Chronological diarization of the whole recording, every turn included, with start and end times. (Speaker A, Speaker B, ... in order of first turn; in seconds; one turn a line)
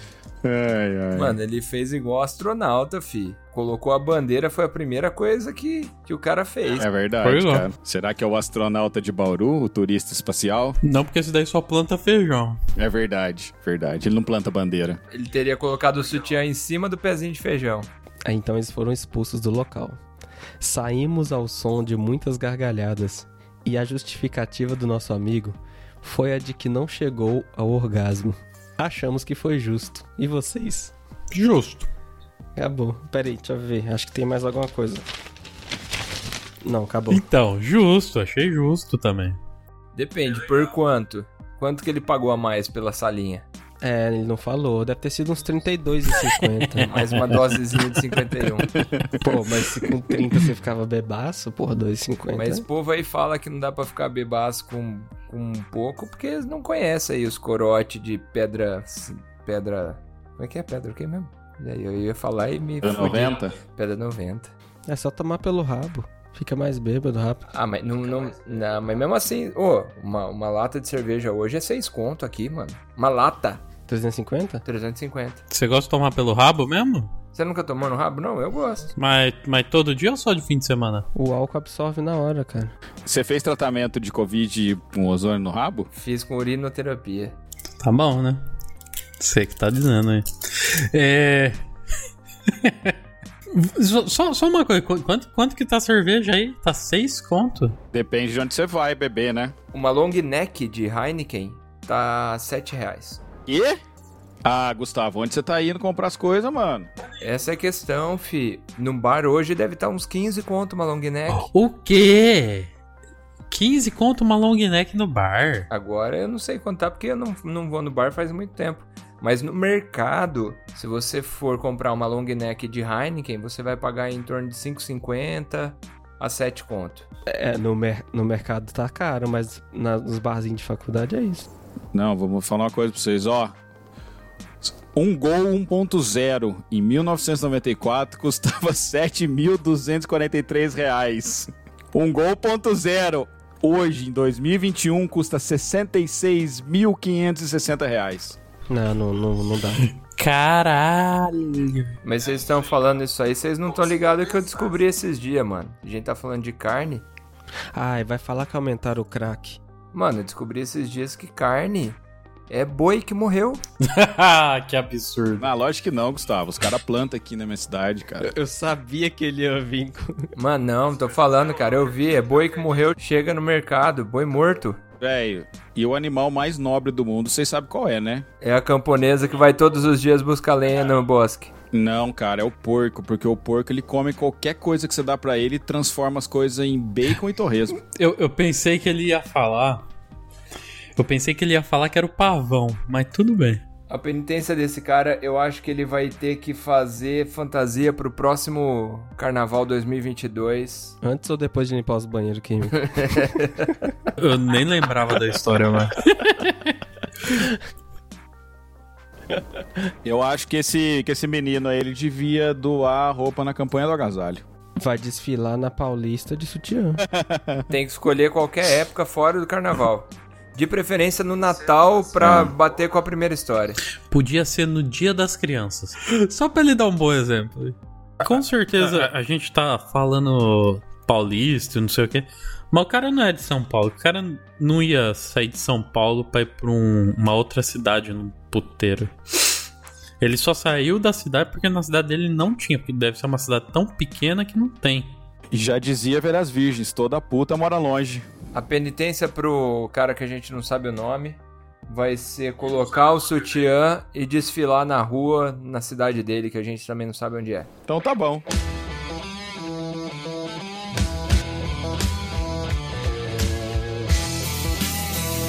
Speaker A: 0.4-1.4
Speaker B: 1.1-6.8
Speaker A: 6.8-10.8
Speaker C: 7.2-7.7
Speaker C: 10.8-12.6
Speaker A: 12.8-15.0
Speaker B: 15.1-17.9
Speaker D: 18.2-20.0
Speaker D: 20.6-30.9
Speaker C: 31.3-31.9
Speaker D: 32.6-35.0
Speaker D: 36.6-37.2
Speaker C: 37.1-39.4
Speaker B: 40.0-43.5
Speaker D: 43.8-46.9
Speaker B: 46.9-48.7
Speaker A: 48.7-49.2
Speaker D: 49.2-52.6
Speaker B: 52.3-64.5
Speaker A: 62.8-63.6
Speaker D: 64.9-67.5
Speaker B: 67.5-73.7
Speaker D: 73.9-74.6
Speaker B: 74.7-75.4
Speaker C: 75.5-77.1
Speaker B: 77.3-78.9
Speaker C: 79.0-81.1
Speaker D: 81.2-82.7
Speaker A: 83.0-85.9
Speaker B: 85.9-87.4
Speaker C: 87.8-88.4
Speaker C: 89.2-91.6
Speaker C: 92.5-93.0
Speaker C: 93.5-97.8
Speaker A: 97.9-99.5
Speaker B: 99.7-103.2
Speaker A: 103.5-103.8
Speaker A: 104.5-106.9
Speaker B: 107.2-111.5
Speaker C: 111.3-112.7
Speaker C: 113.5-115.7
Speaker B: 115.7-127.1
Speaker D: 127.3-131.5
Speaker A: 131.9-133.6
Speaker A: 134.6-148.4
Speaker D: 148.7-149.9
Speaker C: 150.0-151.9
Speaker B: 152.0-157.1
Speaker D: 157.7-159.6
Speaker B: 159.9-163.6
Speaker C: 163.8-165.5
Speaker A: 165.4-168.3
Speaker D: 168.2-170.3
Speaker B: 170.4-174.8
Speaker A: 175.0-178.2
Speaker B: 178.4-181.5
Speaker A: 181.7-187.8
Speaker C: 188.0-189.9
Speaker C: 191.0-193.6
Speaker B: 193.9-201.0
Speaker D: 201.0-203.5
Speaker B: 202.8-203.5
Speaker C: 204.2-206.7
Speaker A: 210.1-214.4
Speaker D: 214.8-217.0
Speaker A: 217.0-217.7
Speaker B: 217.7-223.8
Speaker A: 222.2-222.5
Speaker C: 224.1-239.2
Speaker C: 240.2-245.1
Speaker A: 245.5-248.3
Speaker B: 248.5-257.7
Speaker A: 257.9-258.4